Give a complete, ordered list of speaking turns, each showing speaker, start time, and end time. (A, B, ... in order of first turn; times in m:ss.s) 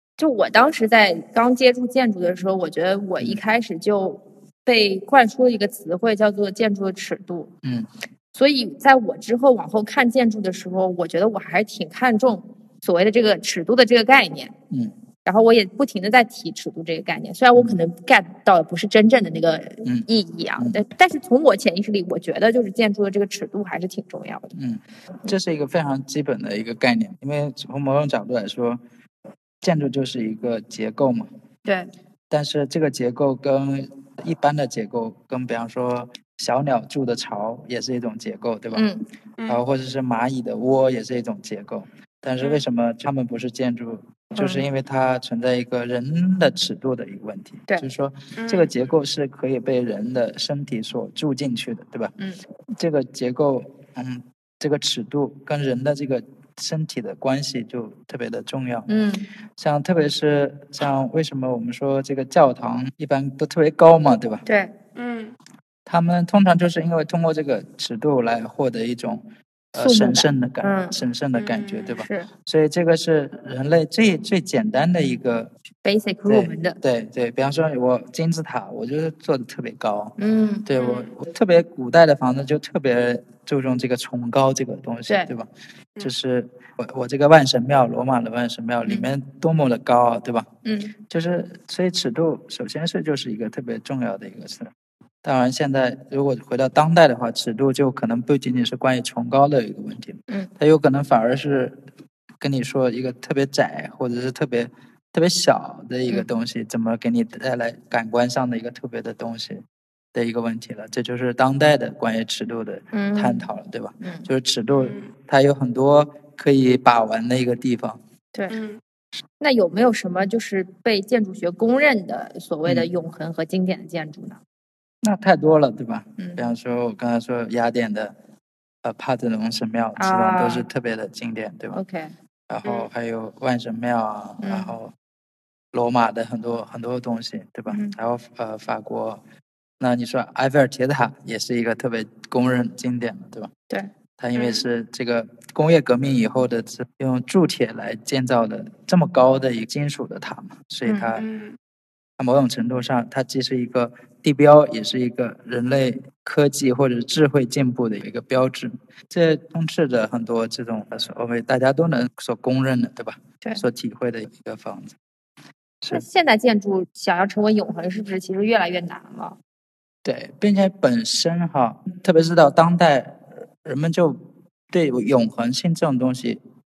0:00.2-0:07.5 A
0:07.6-0:07.9 B
0:08.3-0:14.5 A
0:15.2-0:24.5 A
0:19.8-0:20.8 B
0:24.5-0:28.8 B
0:29.6-0:31.3 B
0:31.6-0:31.9 A
0:32.3-0:38.8 B
0:38.7-0:39.0 A
0:39.5-0:52.1 B
0:44.4-0:44.7 A
0:48.4-0:48.7 C
0:52.8-0:58.9 B
0:58.9-0:59.3 A
0:59.6-1:04.4 B
1:04.4-1:04.7 A
1:04.9-1:05.4 C
1:05.9-1:15.5 B
1:09.8-1:11.0 A
1:11.4-1:12.0 C
1:12.0-1:12.3 A
1:15.8-1:16.8 A
1:16.2-1:25.5 B
1:20.2-1:20.7 A
1:20.8-1:21.1 C
1:26.0-1:30.5 B
1:30.6-1:30.9 A
1:31.1-1:34.7 B
1:35.2-1:41.8 B
1:42.4-1:58.0 B
1:52.9-1:53.5 A
1:54.0-1:54.3 A
1:54.7-1:55.1 C
1:58.5-1:58.8 C
1:59.4-2:04.4 A
2:05.0-2:08.2 B
2:06.2-2:06.4 A
2:08.8-2:11.8 B
2:10.0-2:10.6 A
2:11.7-2:12.1 A
2:12.5-2:14.9 B
2:14.4-2:14.7 A
2:15.7-2:19.2 B
2:17.7-2:17.9 A
2:19.8-2:23.5 B
2:24.2-2:31.2 B
2:24.4-2:24.6 C
2:30.8-2:31.1 A
2:31.2-2:31.6 C
2:32.2-2:45.0 B
2:45.9-2:49.4 A
2:50.0-2:56.4 B